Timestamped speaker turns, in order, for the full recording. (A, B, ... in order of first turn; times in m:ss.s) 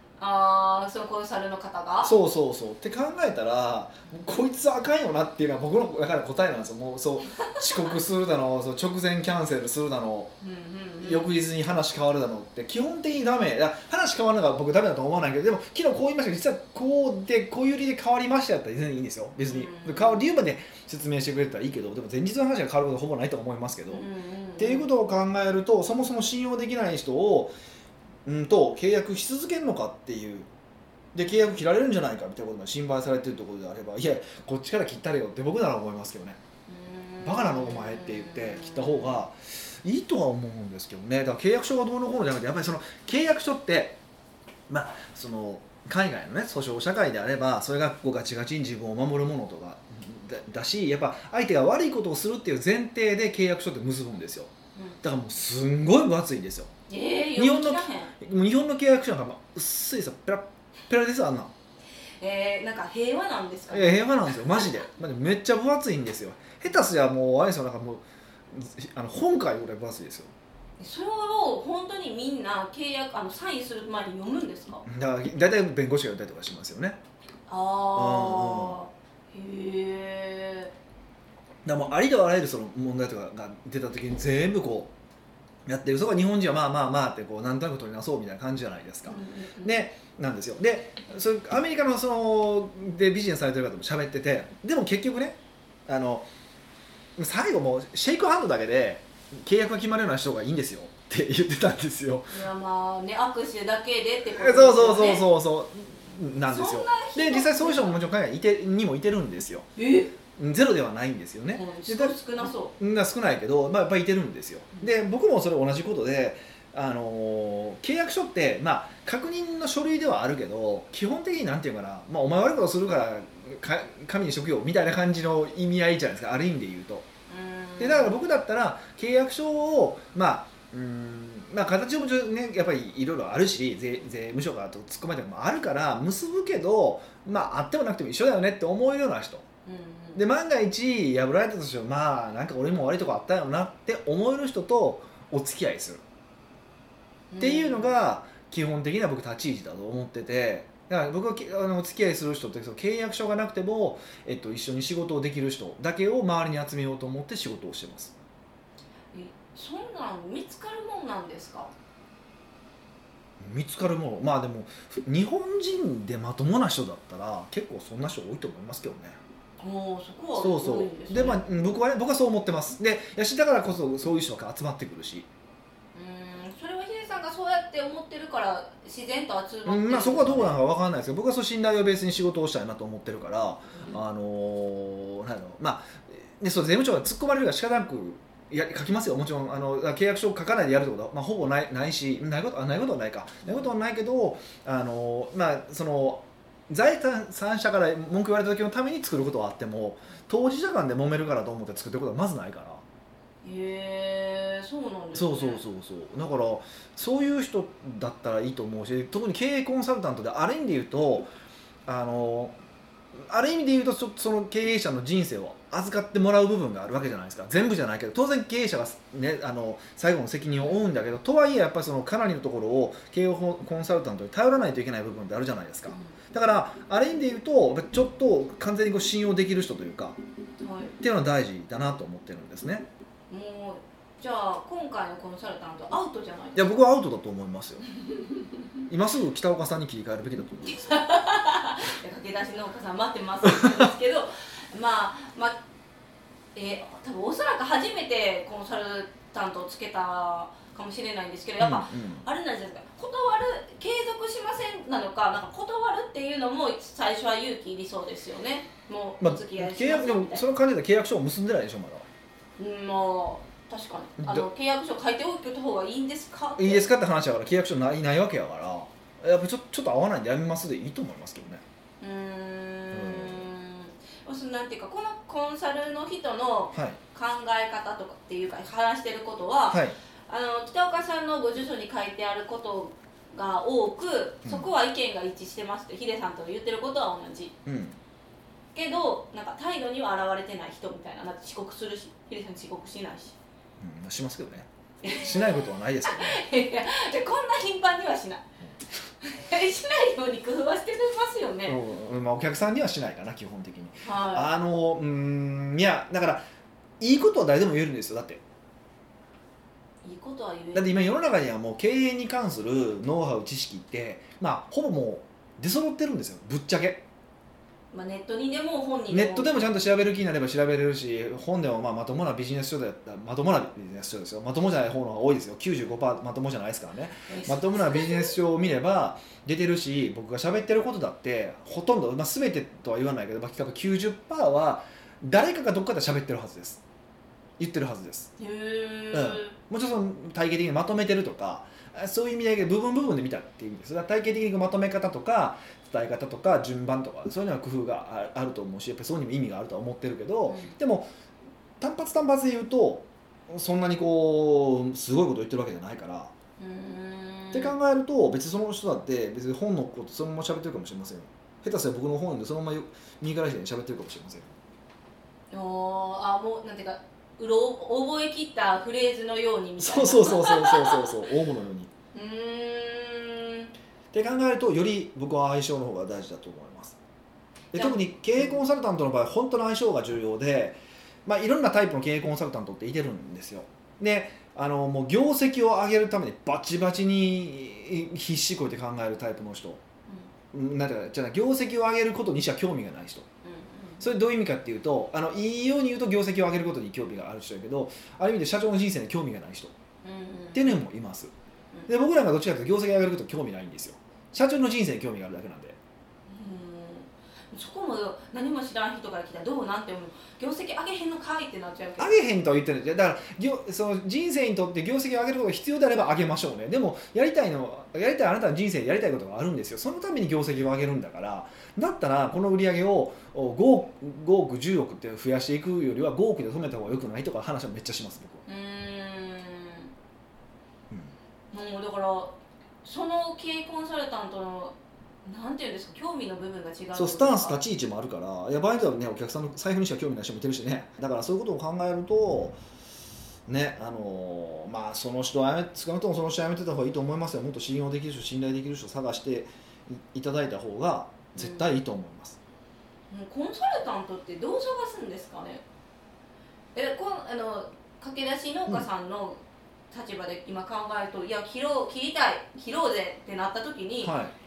0:00.2-0:02.2 A
0:02.0-0:10.3 B
0:10.4-0:11.3 A
0:11.0-0:24.0 B
0:19.5-0:20.3 A
0:23.9-0:24.9 A
0:24.6-0:27.6 B
0:28.3-0:30.5 B
0:31.1-0:36.4 B
0:36.7-0:39.2 A
0:37.2-0:44.0 B
0:44.7-0:56.7 B
0:54.8-0:55.0 A
0:56.9-0:58.1 A
0:57.4-1:01.5 B
1:02.2-1:04.7 A
1:03.7-1:10.3 B
1:10.8-1:14.8 A
1:14.8-1:17.0 B
1:17.5-1:20.7 A
1:17.9-1:18.8 B
1:21.6-1:24.9 B
1:25.7-1:36.3 B
1:29.1-1:29.8 A
1:37.2-1:42.4 B
1:42.3-1:45.3 A
1:44.3-1:49.7 B
1:46.5-1:48.0 A
1:49.8-1:50.2 A
1:50.4-2:07.1 B
1:51.5-1:52.7 A
2:07.3-2:08.2 A
2:07.8-2:19.4 B
2:19.7-2:20.2 A
2:20.2-2:26.0 B
2:27.3-2:27.9 A
2:27.4-2:38.2 B
2:39.1-2:41.7 A
2:43.4-2:49.2 B
2:49.6-2:51.4 A
2:50.4-2:55.3 B
2:55.9-3:00.6 A
2:59.7-3:22.8 B
3:13.4-3:13.7 A
3:23.4-3:25.6 A
3:25.1-3:31.3 B
3:31.9-3:32.6 B
3:33.2-3:50.2 B
3:50.6-3:51.0 A
3:51.0-3:52.9 B
3:53.3-3:56.8 A
3:56.6-3:57.9 B
3:58.0-3:58.6 A
3:58.9-4:01.0 B
4:00.7-4:05.6 A
4:03.5-4:03.8 B
4:06.5-4:20.4 A
4:11.6-4:12.3 B
4:19.2-4:22.0 B
4:22.6-4:26.9 A
4:24.2-4:24.5 B
4:26.6-4:31.6 B
4:32.0-4:47.5 A
4:32.9-4:33.5 B
4:36.7-4:37.0 B
4:39.7-4:40.0 B
4:47.7-4:48.0 B
4:48.7-4:53.4 A
4:53.8-4:56.4 B
4:55.0-4:58.4 A
4:59.2-5:01.8 A
5:01.7-5:06.4 B
5:04.0-5:04.5 A
5:07.0-5:08.4 B
5:10.0-5:11.0 A
5:10.7-5:17.0 B
5:17.9-5:19.7 A
5:19.1-5:36.8 B
5:27.3-5:28.4 A
5:37.6-5:38.3 B
5:38.4-5:39.6 A
5:39.1-5:51.1 B
5:50.5-5:50.8 A
5:51.8-5:56.3 B
5:56.6-5:57.7 A
5:57.5-6:04.5 B
6:05.5-6:11.2 A
6:09.8-6:11.9 B
6:12.1-6:13.7 A
6:14.1-6:17.0 B
6:17.7-6:29.8 B
6:17.7-6:18.6 A
6:30.5-6:33.3 B
6:33.4-6:34.0 A
6:34.0-6:39.7 B
6:40.0-6:40.8 A
6:40.5-6:41.3 B
6:41.9-6:45.8 B
6:46.3-6:52.2 A
6:52.0-7:08.4 B
7:08.5-7:09.9 A
7:11.5-7:17.6 A
7:17.0-7:22.6 B
7:23.5-7:32.4 B
7:31.4-7:31.7 A
7:33.1-7:35.6 A
7:36.8-7:39.4 A
7:39.9-7:44.2 A
7:44.0-7:44.3 B